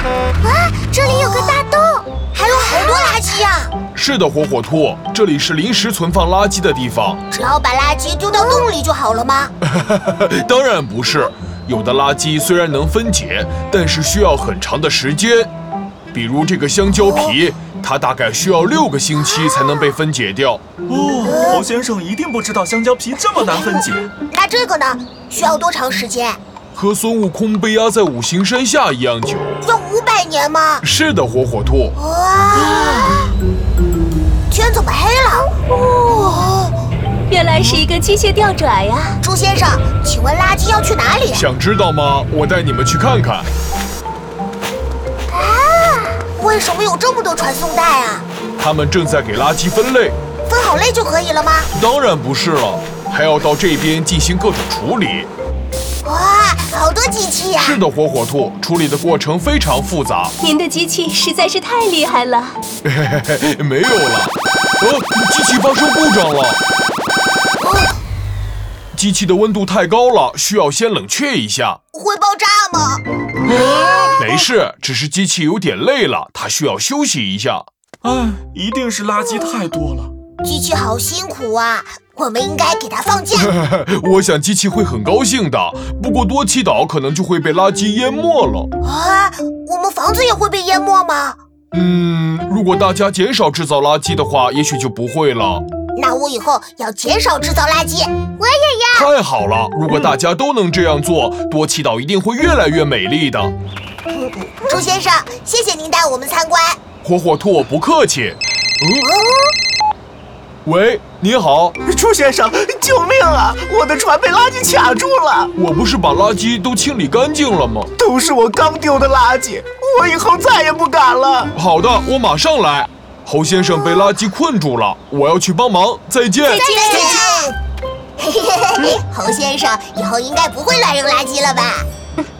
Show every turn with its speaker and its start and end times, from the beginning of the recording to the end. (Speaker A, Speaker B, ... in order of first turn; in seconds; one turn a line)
Speaker A: 0.4-3.7
Speaker B: 3.9-7.2
Speaker A: 7.3-9.5
Speaker B: 9.6-15.5
Speaker B: 16.1-20.6
Speaker A: 17.0-17.3
Speaker C: 20.9-24.1
Speaker A: 21.2-21.7
Speaker A: 24.3-26.4
Speaker B: 26.7-29.6
Speaker A: 29.6-30.8
Speaker B: 30.8-31.9
Speaker A: 31.9-33.3
Speaker C: 32.6-33.2
Speaker A: 34.5-35.5
Speaker D: 35.5-36.5
Speaker A: 36.1-36.7
Speaker D: 37.3-39.2
Speaker A: 39.2-41.5
Speaker B: 41.3-43.5
Speaker A: 45.3-48.2
Speaker B: 48.6-50.1
Speaker A: 50.5-51.7
Speaker B: 51.7-55.3
Speaker A: 56.0-57.8
Speaker B: 57.6-60.3
Speaker D: 60.4-62.6
Speaker B: 62.8-66.6
Speaker A: 67.6-67.9
Speaker B: 68.9-71.8
Speaker A: 71.9-73.0
Speaker A: 73.7-74.2
Speaker B: 74.2-77.7
Speaker C: 78.0-80.1
Speaker A: 80.4-83.5
Speaker B: 83.3-88.7
Speaker A: 88.8-91.4
Speaker B: 91.7-95.6
Speaker A: 96.0-99.0
Speaker B: 98.9-103.5
Speaker A: 104.1-106.8
Speaker B: 107.0-109.1
Speaker A: 109.0-109.5
Speaker B: 110.6-111.7
Speaker E: 111.8-115.5
Speaker B: 115.5-117.9
Speaker E: 118.0-121.5
Speaker B: 121.5-126.6
Speaker D: 126.4-127.4
Speaker A: 126.5-127.5
Speaker A: 128.2-131.9